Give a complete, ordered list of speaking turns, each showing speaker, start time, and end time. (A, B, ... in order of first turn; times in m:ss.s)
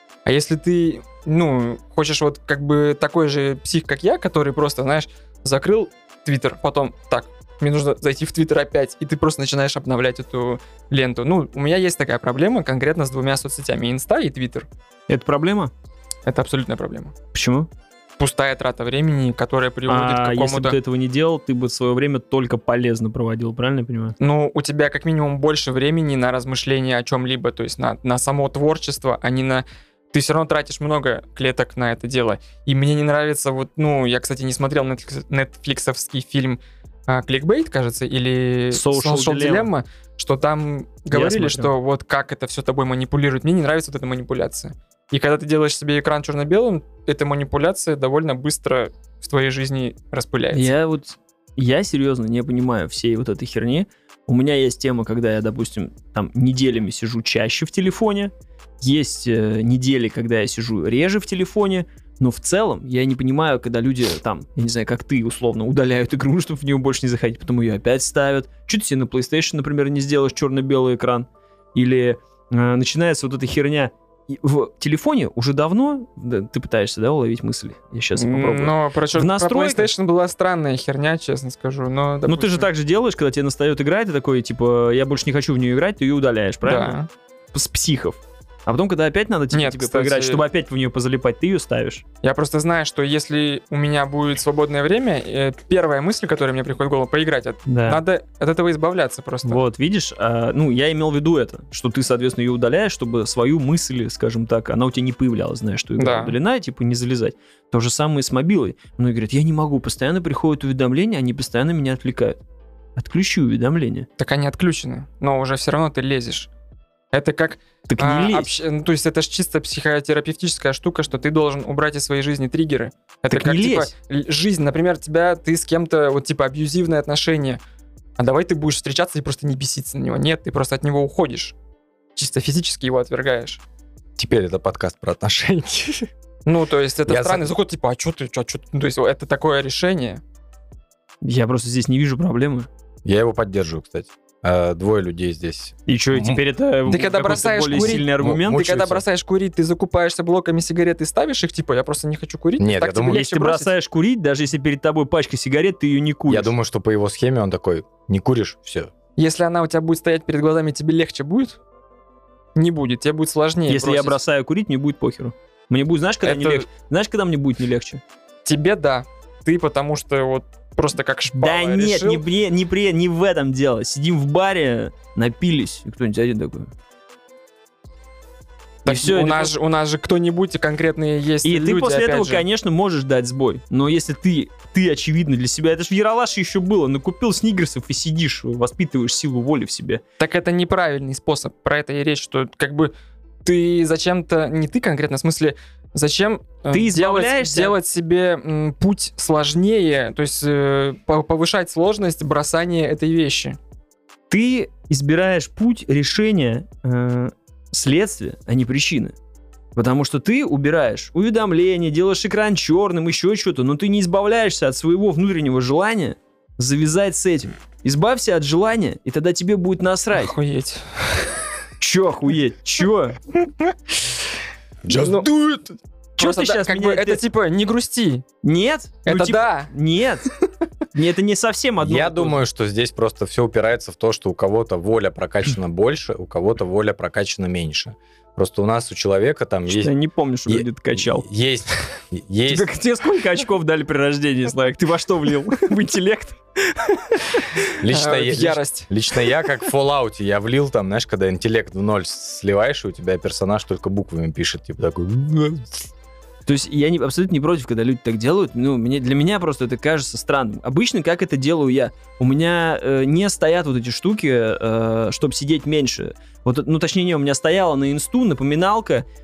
0:00.2-0:14.7 A
0:15.1-0:15.7 B
0:16.2-0:17.1 A
0:17.3-0:17.7 B
0:18.2-0:20.8 A
0:19.9-0:24.2 B
0:24.2-0:50.7 A
0:38.7-0:39.7 B
0:41.1-0:41.7 B
0:50.5-1:19.9 B
1:18.2-1:22.7 A
1:22.3-1:27.0 B
1:26.6-1:27.1 A
1:27.5-1:32.0 B
1:29.5-1:30.4 A
1:32.2-1:39.6 A
1:37.6-1:38.0 B
1:39.4-1:52.4 B
1:46.0-1:46.4 A
1:53.0-1:54.1 B
1:54.2-1:56.5 A
1:57.1-2:07.6 A
1:57.9-1:58.5 B
2:03.3-2:03.9 B
2:08.2-2:11.5 A
2:12.2-2:13.6 A
2:14.2-2:16.1 C
2:16.4-2:20.2 A
2:17.1-2:17.5 C
2:21.2-2:22.7 B
2:23.0-2:26.4 C
2:25.9-2:29.0 B
2:26.9-2:33.7 A
2:28.2-2:29.0 C
2:32.6-2:33.2 C
2:33.1-2:36.5 B
2:36.3-2:38.9 C
2:39.2-2:41.6 A
2:42.5-2:44.2 A
2:43.7-2:48.0 B
2:46.2-2:46.7 A
2:48.4-2:52.2 A
2:51.3-2:56.7 B
2:58.8-2:59.5 B
2:58.8-3:02.4 A
3:01.4-3:10.0 B
3:10.2-3:12.9 A
3:13.4-3:23.6 A
3:16.7-3:17.8 B
3:24.3-3:29.2 B
3:29.7-3:40.3 B
3:40.1-3:41.4 A
3:41.8-3:43.2 B
3:44.8-3:45.6 C
3:44.9-3:45.3 A
3:46.2-3:47.2 B
3:46.2-3:48.2 A
3:48.4-3:50.3 B
3:49.0-3:49.7 A
3:50.9-3:52.4 B
3:51.8-3:59.9 C
3:59.7-4:01.3 B
4:00.4-4:02.7 C
4:02.5-4:07.6 B
4:07.8-4:15.9 C
4:07.9-4:08.9 A
4:16.4-4:29.0 B